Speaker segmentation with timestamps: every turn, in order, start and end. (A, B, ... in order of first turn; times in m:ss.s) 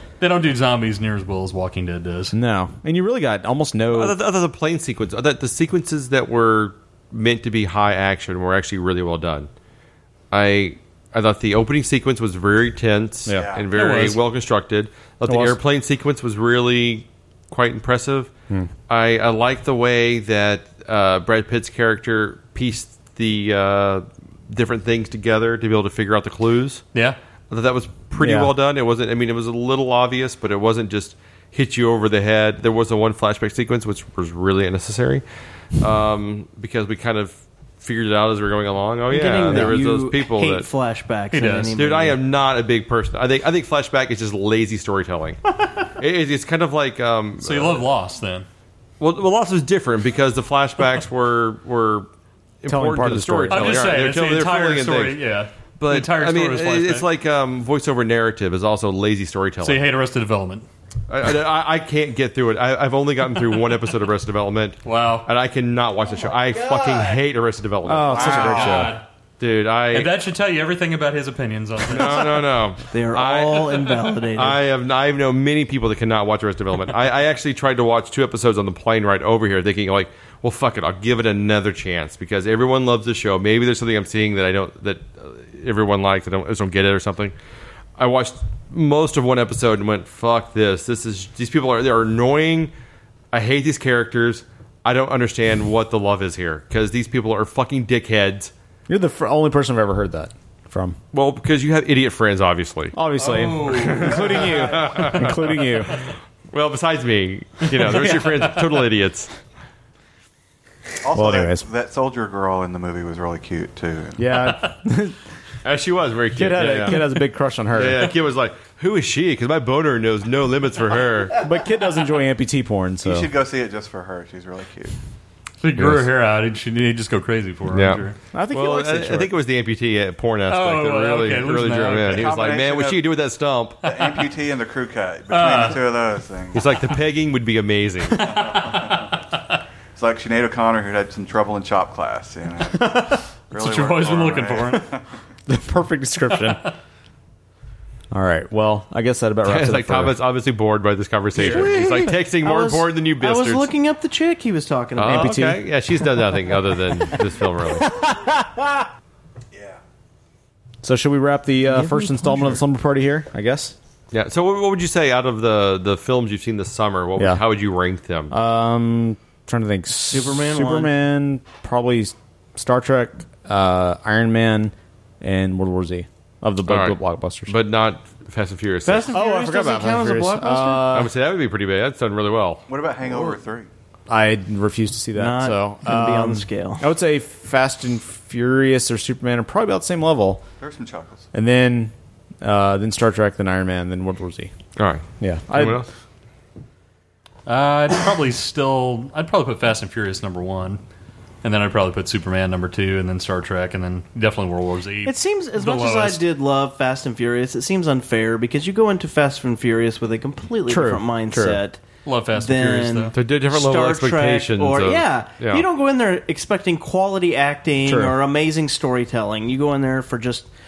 0:00.2-0:02.3 A
0:02.3-0:04.2 B
0:03.9-0:09.5 C
0:10.3-0:18.3 C
0:13.3-0:13.6 D
0:13.7-0:14.2 A
0:15.2-0:15.6 B
0:18.9-0:26.8 C
0:27.5-0:35.2 C
0:28.2-0:28.5 B
0:35.8-0:40.7 C
0:39.1-0:42.2 E
0:41.3-0:41.7 A
0:41.8-0:45.4 C
0:46.0-0:47.8 C
0:47.4-0:48.4 A
0:49.0-0:52.1 C
0:52.6-0:55.2 C
0:52.7-0:54.0 B
0:53.5-0:57.0 A
0:55.8-0:59.8 C
0:59.6-1:00.6 A
1:01.1-1:10.1 C
1:04.8-1:05.3 A
1:07.8-1:09.0 B
1:08.1-1:08.7 D
1:08.2-1:09.0 A
1:09.9-1:12.4 A
1:11.9-1:27.3 C
1:12.9-1:14.6 E
1:28.0-1:32.7 C
1:33.3-1:38.5 C
1:38.9-1:41.0 B
1:41.1-1:42.9 C
1:42.9-1:46.0 B
1:43.2-1:45.1 A
1:43.7-1:45.4 C
1:46.5-1:49.3 C
1:47.7-1:48.6 A
1:51.0-1:54.2 D
1:51.1-1:51.6 B
1:54.2-1:55.2 B
1:55.6-1:57.0 C
1:56.4-1:58.1 B
1:57.7-2:01.4 C
2:01.4-2:03.3 B
2:03.0-2:04.9 D
2:05.6-2:08.2 A
2:07.7-2:13.8 C
2:08.3-2:09.3 B
2:10.5-2:12.4 A
2:12.1-2:13.0 D
2:13.8-2:16.7 D
2:15.3-2:15.8 A
2:16.5-2:18.3 C
2:18.2-2:19.2 A
2:18.3-2:19.2 D
2:19.9-2:25.0 D
2:23.5-2:24.8 A
2:25.5-2:26.6 B
2:28.1-2:30.2 B
2:29.4-2:33.7 C
2:31.3-2:32.1 B
2:31.5-2:35.6 E
2:35.0-2:37.9 C
2:35.0-2:35.6 B
2:37.8-2:38.8 B
2:39.5-2:39.8 D
2:40.8-2:43.7 B
2:41.8-2:42.2 E
2:44.1-2:48.3 C
2:48.3-2:57.5 B
2:50.1-2:50.9 E
2:56.7-2:59.1 C
2:58.8-3:00.9 E
2:59.1-3:01.1 B
3:00.9-3:02.6 C
3:02.7-3:03.7 D
3:04.1-3:10.4 B
3:05.2-3:06.8 E
3:10.6-3:11.3 D
3:11.3-3:14.5 B
3:14.8-3:15.9 C
3:15.2-3:15.8 B
3:17.4-3:20.8 A
3:21.4-3:26.2 A
3:25.0-3:31.8 E
3:30.7-3:31.6 B
3:32.0-3:33.1 A
3:32.3-3:40.5 E
3:33.1-3:35.6 C
3:37.8-3:38.2 B